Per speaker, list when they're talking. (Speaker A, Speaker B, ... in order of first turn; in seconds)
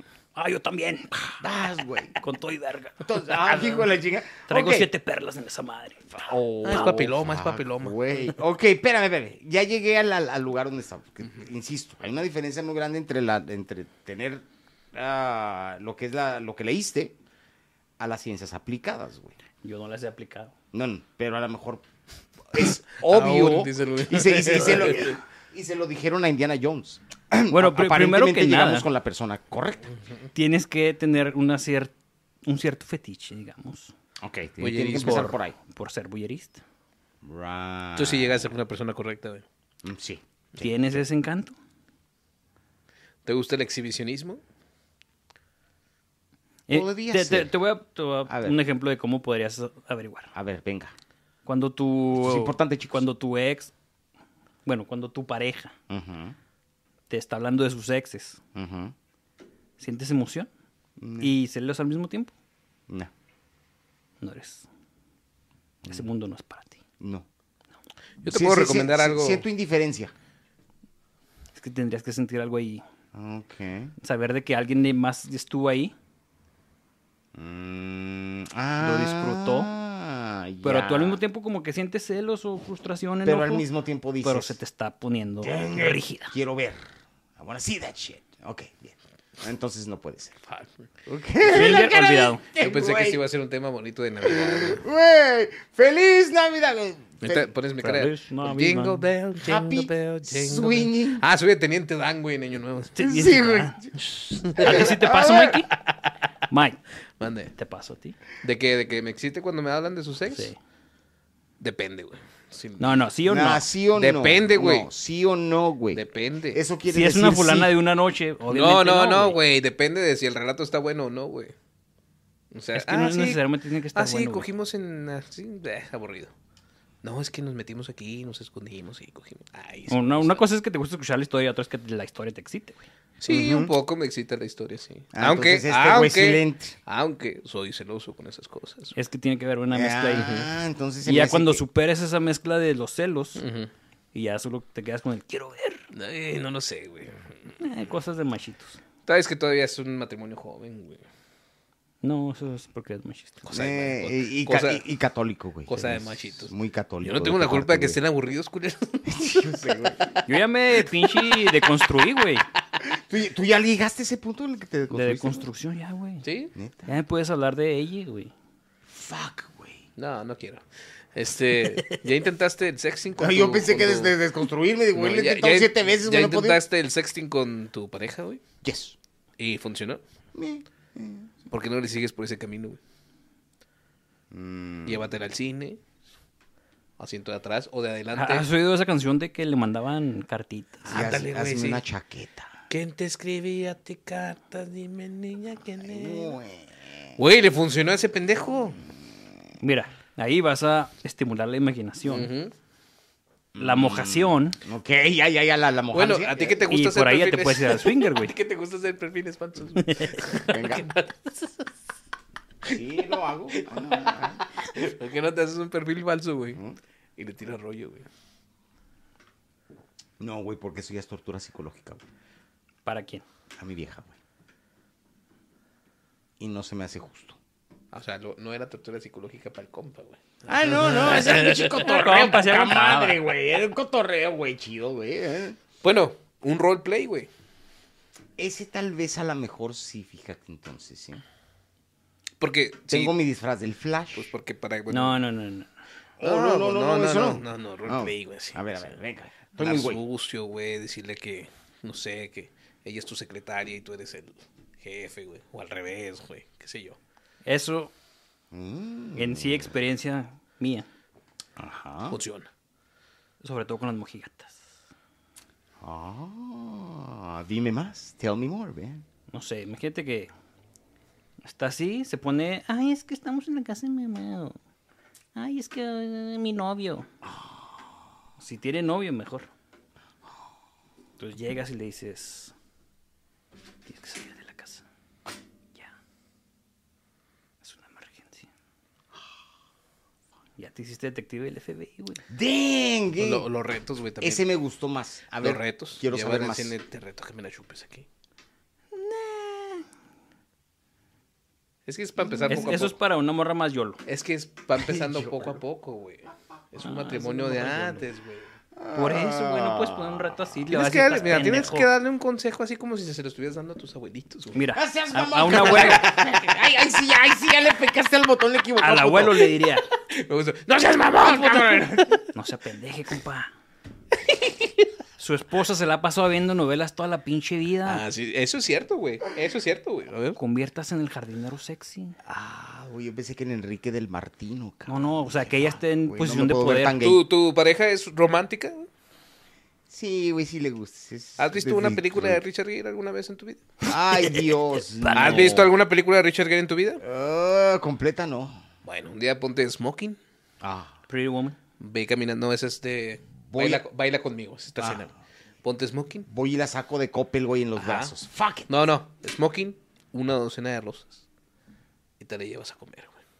Speaker A: 0.3-1.3, 2.1-3.9, 4.5-6.2, 19.6-20.5, 27.5-28.9, 30.3-31.9, 32.4-33.9, 35.0-36.6, 40.6-41.5, 46.7-50.3, 51.5-53.7, 54.6-55.7, 57.1-58.4, 59.8-60.5, 61.2-62.3, 64.2-64.7, 65.9-66.8, 71.5-72.8, 74.0-75.9, 78.8-79.7, 80.6-83.7, 84.2-86.3, 91.4-92.4, 97.8-99.1, 103.0-103.8, 104.3-105.7, 106.5-106.8, 107.5-108.2, 112.8-113.7, 116.9-119.4, 122.7-124.5, 129.9-132.8, 138.9-140.4, 141.0-143.4, 144.1-145.9, 147.6-148.8, 152.0-153.4, 160.2-162.4, 164.9-166.2, 166.8-168.3, 188.1-190.8, 199.6-202.3, 203.6-204.6, 206.7-208.3, 209.8-210.2, 222.8-223.2, 230.6-233.2, 244.9-245.7, 257.4-257.9, 259.1-260.9, 263.4-264.6, 269.3-270.3, 271.4-274.6, 275.3-277.1, 278.4-279.5, 281.2-282.5, 283.9-284.8, 287.6-288.5, 290.6-292.2, 298.9-299.9, 302.5-304.0, 306.8-308.1, 308.9-311.9, 314.5-316.0, 318.8-319.9, 322.3-323.5, 325.2-328.0, 330.4-332.1, 334.9-337.0, 345.0-345.7, 351.1-351.6
Speaker B: 1.4-2.2, 3.0-4.9, 6.1-17.1, 18.0-19.3, 20.7-21.8, 22.5-29.9, 34.2-35.5, 37.2-38.5, 39.8-40.2, 46.7-47.5, 48.3-48.6, 50.3-50.9, 52.2-53.0, 55.9-56.4, 58.5-58.9, 61.0-61.3, 67.0-67.2, 68.3-70.1, 73.1-73.9, 77.3-81.2, 83.2-84.6, 85.4-90.4, 91.0-93.2, 94.2-97.5, 99.4-101.2, 103.0-105.7, 113.2-117.7, 133.2-133.7, 135.1-136.7, 139.7-141.6, 153.5-158.0, 159.1-160.0, 162.8-165.5, 166.5-166.9, 168.9-169.8, 173.2-176.6, 178.6-178.9, 180.3-181.3, 184.3-185.1, 190.8-192.5, 195.8-197.1, 203.5-206.6, 210.5-210.9, 212.6-214.4, 220.2-222.0, 223.6-224.1, 226.4-227.4, 230.5-235.6, 238.4-241.2, 242.9-244.3, 246.2-250.0, 258.5-259.7, 261.6-262.2, 265.8-269.0, 277.2-277.8, 292.3-293.5, 294.2-296.7, 302.3-302.6, 304.8-305.6, 308.8-310.4, 314.7-319.5, 321.2-322.2, 332.2-337.2, 339.9-342.4, 343.9-345.8, 347.0-348.6, 350.6-350.9, 353.5-353.8, 354.8-355.0, 356.3-358.7
Speaker C: 6.6-8.3, 23.0-25.2, 34.6-35.3, 38.0-39.4, 43.2-44.4, 68.2-69.4, 92.6-94.8, 97.2-103.0, 104.4-104.9, 107.2-107.5, 108.4-110.5, 111.6-113.0, 114.0-114.9, 115.9-116.6, 118.5-121.5, 122.5-126.3, 127.0-130.4, 133.2-138.9, 140.2-140.5, 143.3-143.7, 145.9-147.3, 149.1-151.0, 153.4-154.8, 155.7-156.5, 157.0-159.7, 161.0-161.5, 166.2-166.5, 170.0-170.6, 171.1-174.2, 174.9-178.4, 179.4-180.0, 181.5-182.8, 184.8-185.8, 187.0-188.5, 190.8-191.8, 192.7-196.4, 197.2-198.8, 202.0-202.5, 205.9-211.7, 213.6-216.6, 217.2-218.1, 227.9-231.9, 235.8-237.3, 242.4-243.1, 244.2-245.2, 246.2-248.9, 249.6-257.0, 262.1-262.5, 293.2-294.4, 295.4-298.1, 301.9-302.9, 304.1-308.5, 310.7-314.6, 315.5-316.6, 320.1-322.3, 324.3-324.9, 327.9-330.4, 337.0-338.9, 341.4-343.6, 345.1-347.0, 348.8-350.2, 351.8-356.2, 357.8-358.1, 358.7-361.2, 362.2-363.2